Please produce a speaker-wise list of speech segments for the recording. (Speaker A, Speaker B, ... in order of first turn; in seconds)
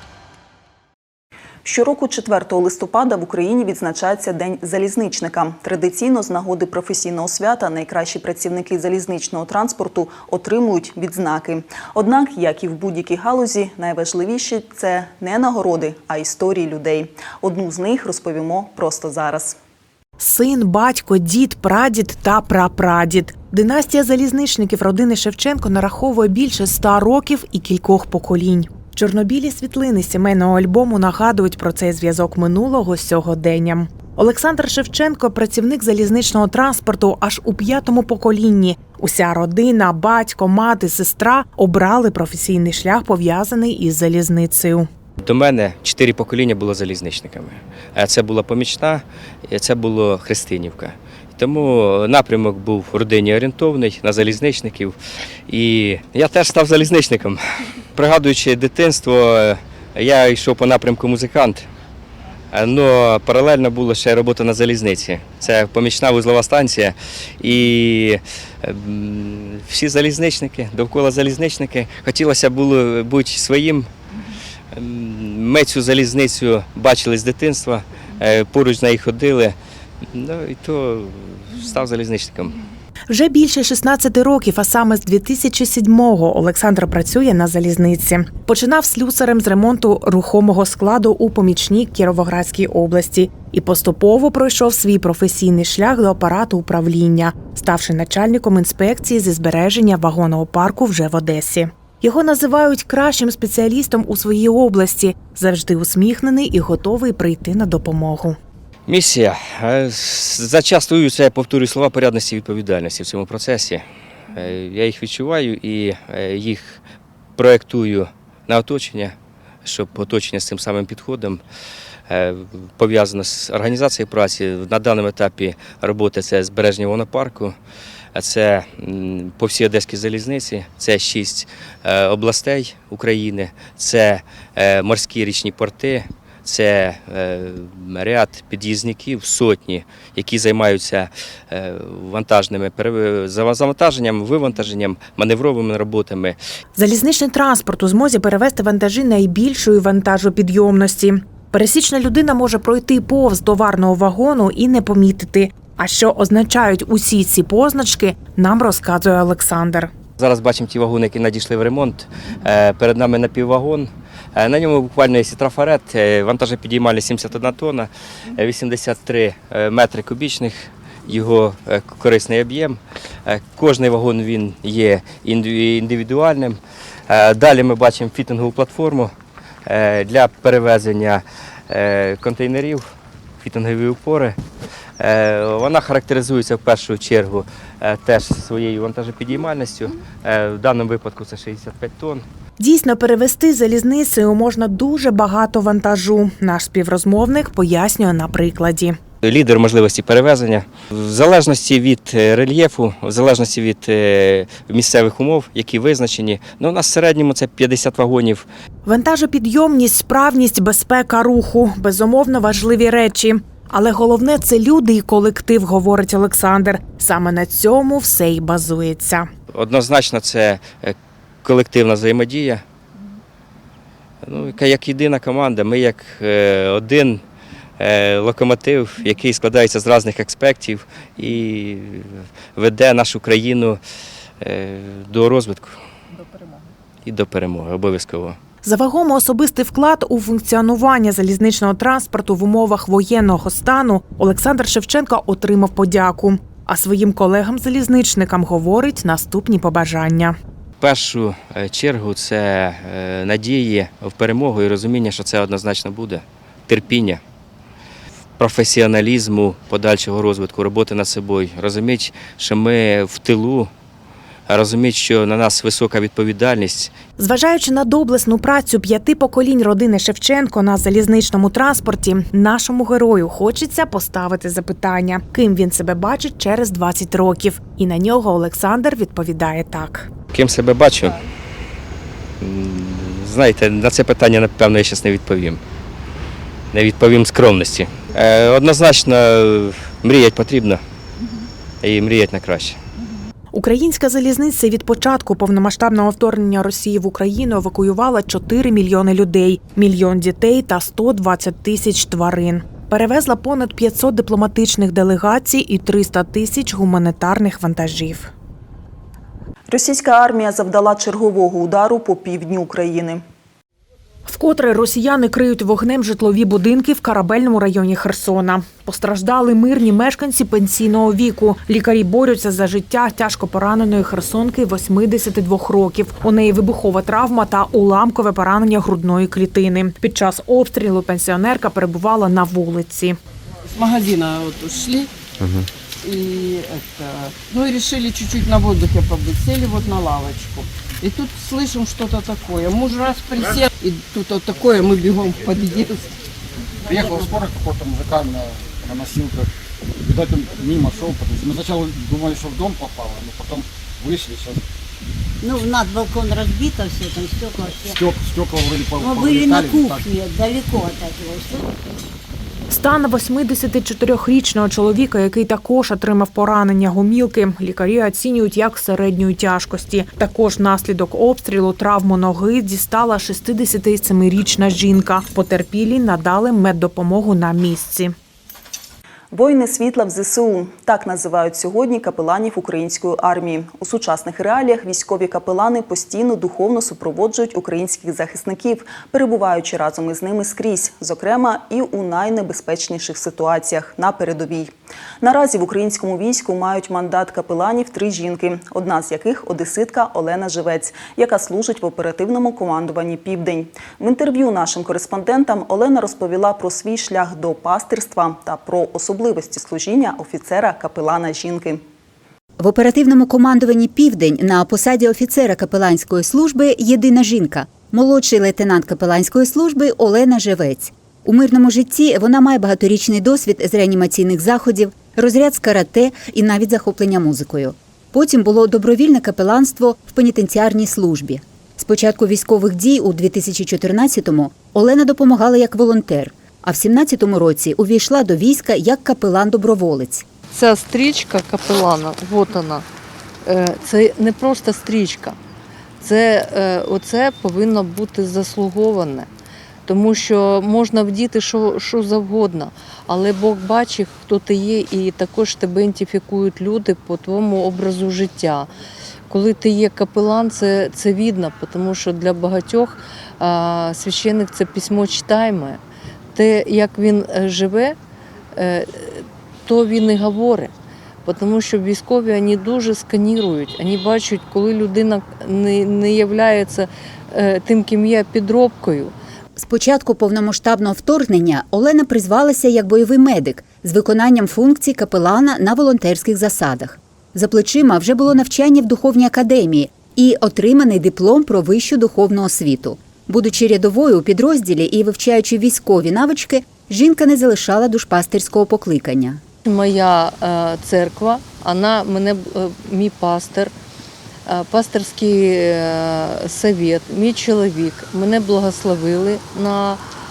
Speaker A: 1.6-19.6, 309.7-313.2, 379.3-411.8
Speaker B: 20.2-44.9, 83.1-108.4, 146.8-159.9, 192.6-199.0, 208.8-219.3, 238.6-250.4, 267.2-280.1, 293.5-308.3, 314.3-333.2, 362.7-378.1
Speaker C: 45.2-55.0, 55.5-57.4, 58.0-61.7, 62.5-73.9, 74.7-79.5, 80.1-82.6, 108.9-116.8, 117.4-121.4, 122.1-127.5, 128.2-146.4, 160.2-179.1, 179.7-182.8, 183.4-184.4, 185.0-192.2, 199.2-208.5, 219.5-222.6, 224.2-227.2, 227.8-233.8, 234.4-235.8, 237.1-238.4, 250.8-257.2, 258.4-263.7, 264.5-266.9, 280.3-281.2, 282.4-285.6, 286.7-290.8, 291.8-292.8
Speaker D: 333.7-335.1, 336.0-346.1
Speaker E: 346.9-354.6, 357.8-360.1
Speaker F: 355.4-358.0, 359.0-361.7
Speaker G: 412.6-440.3, 479.6-499.4
Speaker H: 440.5-442.9, 443.4-445.4, 446.0-449.3, 449.9-458.7, 459.3-465.8, 466.4-468.0, 468.6-470.7, 471.2-479.1, 499.6-503.7, 504.5-510.0